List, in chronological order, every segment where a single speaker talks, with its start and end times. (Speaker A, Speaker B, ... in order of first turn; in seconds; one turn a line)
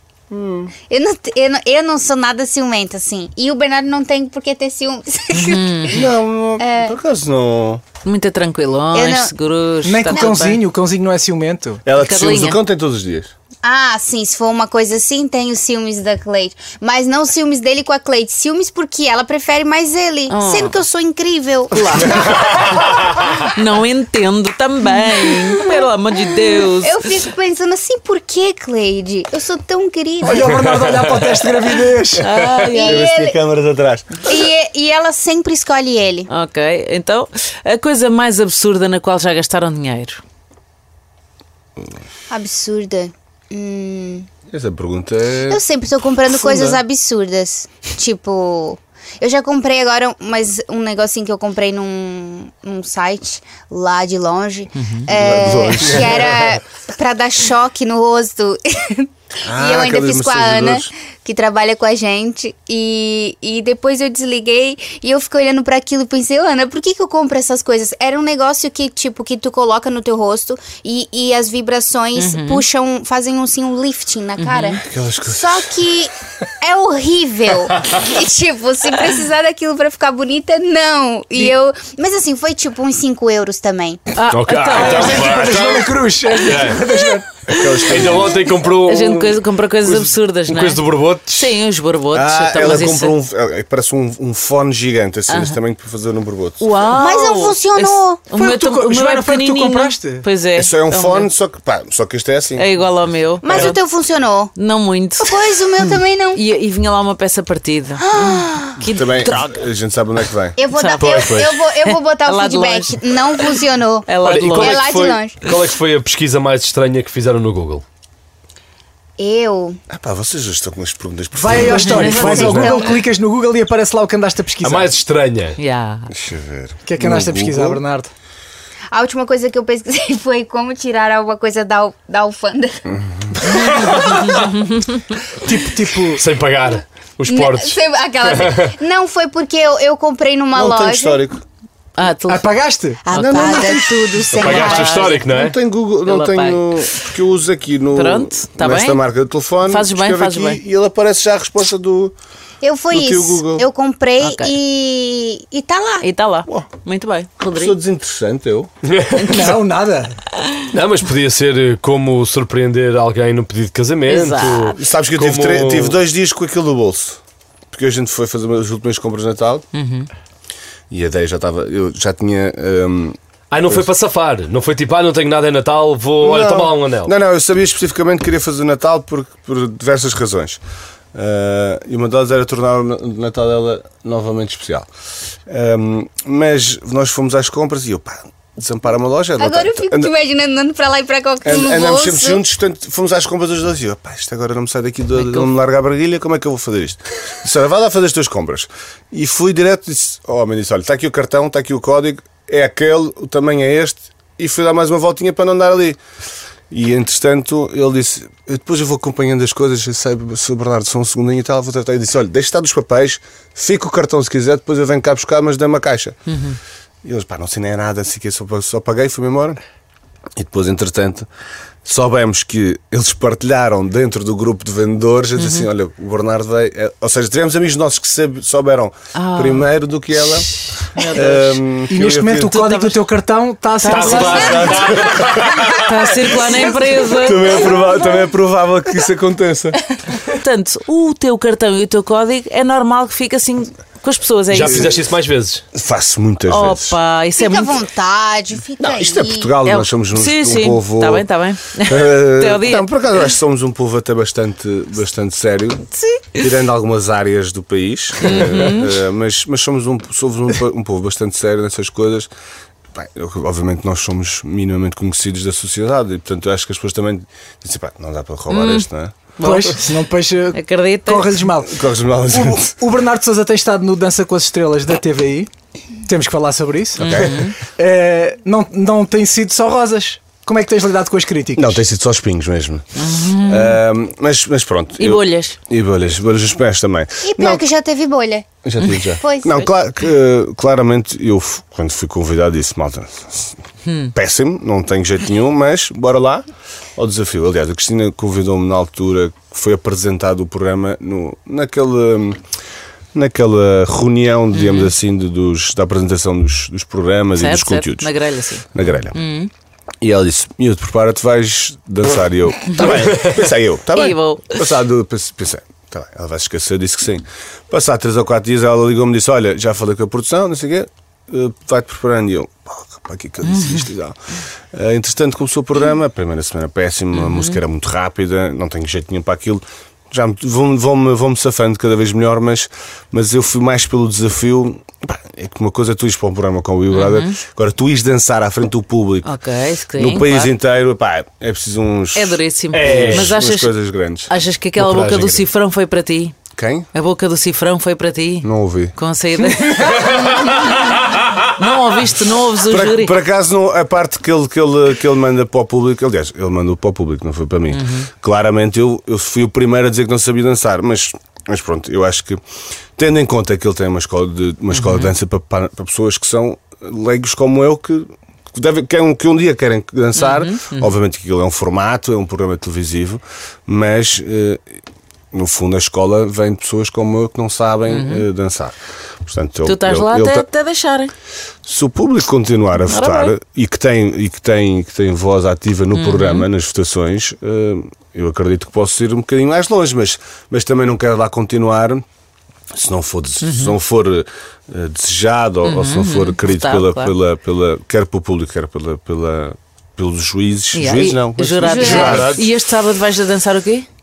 Speaker A: 0.3-0.7
Speaker B: 0.9-6.0
Speaker C: 5.3-6.0
Speaker A: 5.9-7.8
Speaker B: 6.6-6.9
Speaker C: 8.0-10.6
Speaker B: 8.9-9.3
Speaker D: 9.8-11.8
Speaker A: 11.8-13.3
Speaker C: 12.0-12.6
Speaker B: 13.6-22.5
Speaker C: 20.3-20.8
Speaker D: 21.9-22.4
Speaker C: 23.5-27.0
Speaker B: 25.5-30.9
Speaker D: 30.2-32.3
Speaker C: 32.2-33.1
Speaker B: 32.5-33.4
Speaker A: 32.8-34.3
Speaker B: 34.2-36.3
Speaker C: 36.3-40.2
Speaker B: 42.3-44.3
Speaker A: 44.5-45.6
Speaker B: 45.5-84.0
Speaker A: 46.2-46.8
Speaker C: 54.8-55.1
Speaker A: 55.1-56.5
Speaker A: 59.5-60.9
Speaker C: 72.2-72.6
Speaker C: 74.4-74.8
Speaker A: 74.8-75.8
Speaker C: 84.1-85.5
Speaker E: 84.3-86.8
Speaker D: 84.7-87.4
Speaker A: 87.5-88.4
Speaker E: 87.7-91.5
Speaker C: 88.8-93.2
Speaker A: 92.1-96.6
Speaker C: 95.3-95.6
Speaker C: 96.6-101.3
Speaker B: 96.9-98.3
Speaker D: 98.3-100.3
Speaker A: 100.5-102.7
Speaker C: 102.6-103.8
Speaker B: 103.4-104.5
Speaker C: 104.5-109.5
Speaker B: 105.2-106.4
Speaker B: 108.0-108.8
Speaker A: 108.8-110.6
Speaker B: 110.6-115.4
Speaker C: 110.7-114.9
Speaker E: 111.0-111.6
Speaker E: 114.2-117.8
Speaker B: 119.2-119.8
Speaker A: 119.9-122.4
Speaker D: 121.3-124.9
Speaker C: 121.6-123.0
Speaker B: 121.9-123.0
Speaker E: 124.6-125.6
Speaker C: 125.6-126.1
Speaker A: 126.1-127.8
Speaker D: 126.9-128.1
Speaker B: 128.9-132.8
Speaker A: 132.9-133.3
Speaker B: 133.6-134.3
Speaker E: 133.8-134.2
Speaker C: 134.3-135.0
Speaker D: 135.4-136.2
Speaker E: 136.2-138.7
Speaker B: 137.3-141.2
Speaker A: 140.5-141.4
Speaker C: 142.0-142.5
Speaker D: 142.3-143.1
Speaker B: 143.1-145.2
Speaker C: 143.1-145.2
Speaker A: 143.1-144.0
Speaker E: 144.3-145.6
Speaker A: 144.6-152.2
Speaker C: 146.1-147.1
Speaker C: 147.9-149.0
Speaker C: 149.6-150.6
Speaker B: 152.6-156.1
Speaker A: 152.9-153.7
Speaker C: 154.2-154.6
Speaker C: 156.0-157.8
Speaker A: 157.4-158.7
Speaker E: 158.8-159.5
Speaker D: 159.2-160.2
Speaker E: 160.7-166.0
Speaker C: 164.1-164.8
Speaker A: 164.8-167.2
Speaker A: 167.7-169.7
Speaker C: 169.7-170.1
Speaker A: 170.9-173.9
Speaker E: 173.5-177.1
Speaker A: 176.2-180.6
Speaker A: 181.1-184.9
Speaker A: 185.5-190.1
Speaker B: 189.4-192.4
Speaker A: 191.4-206.0
Speaker C: 195.2-195.5
Speaker A: 206.7-216.2
Speaker C: 216.3-216.6
Speaker A: 217.0-219.6
Speaker A: 220.4-221.3
Speaker A: 221.8-230.5
Speaker C: 225.4-225.7
Speaker C: 229.2-229.7
Speaker C: 230.8-231.6
Speaker A: 231.1-232.7
Speaker D: 231.9-234.9
Speaker C: 232.6-233.0
Speaker C: 233.8-234.8
Speaker E: 233.8-235.8
Speaker A: 234.2-235.8
Speaker C: 235.7-237.7
Speaker A: 236.3-239.8
Speaker C: 240.3-244.9
Speaker E: 244.5-245.7
Speaker A: 245.7-247.0
Speaker C: 246.5-247.8
Speaker B: 247.4-249.5
Speaker A: 248.8-251.3
Speaker C: 249.7-252.9
Speaker A: 251.8-262.3
Speaker C: 256.0-256.4
Speaker C: 258.2-258.9
Speaker A: 262.9-269.2
Speaker C: 268.5-268.9
Speaker C: 269.4-269.8
Speaker D: 269.4-275.5
Speaker C: 270.5-271.4
Speaker A: 271.6-272.7
Speaker D: 276.1-281.8
Speaker A: 277.0-277.5
Speaker C: 277.0-277.6
Speaker A: 281.6-287.6
Speaker C: 282.9-283.8
Speaker C: 285.0-285.6
Speaker B: 287.2-288.5
Speaker A: 288.6-293.6
Speaker B: 289.1-289.6
Speaker C: 293.9-294.1
Speaker A: 294.1-296.4
Speaker A: 297.0-302.4
Speaker A: 303.1-308.1
Speaker C: 304.6-304.9
Speaker C: 307.4-309.5
Speaker A: 308.7-309.2
Speaker A: 310.0-324.2
Speaker C: 313.9-314.6
Speaker C: 323.5-323.8
Speaker A: 324.7-339.3
Speaker C: 327.1-327.6
Speaker C: 336.9-337.4
Speaker C: 339.2-340.5
Speaker A: 340.0-345.5
Speaker C: 342.1-343.8
Speaker E: 342.7-343.3
Speaker C: 344.3-346.4
Speaker A: 346.6-346.9
Speaker C: 346.9-350.9
Speaker A: 348.4-348.9
Speaker C: 351.5-353.2
Speaker A: 352.5-362.4
Speaker C: 357.7-358.1
Speaker A: 363.0-374.7
Speaker C: 364.7-365.1
Speaker C: 370.1-370.9
Speaker A: 375.3-380.5
Speaker C: 377.9-378.3
Speaker C: 379.6-381.1
Speaker A: 381.6-392.1
Speaker C: 382.9-383.3
Speaker C: 385.9-386.5
Speaker A: 392.7-402.4
Speaker C: 393.4-393.8
Speaker C: 395.6-397.1
Speaker C: 400.7-403.9
Speaker E: 401.8-402.5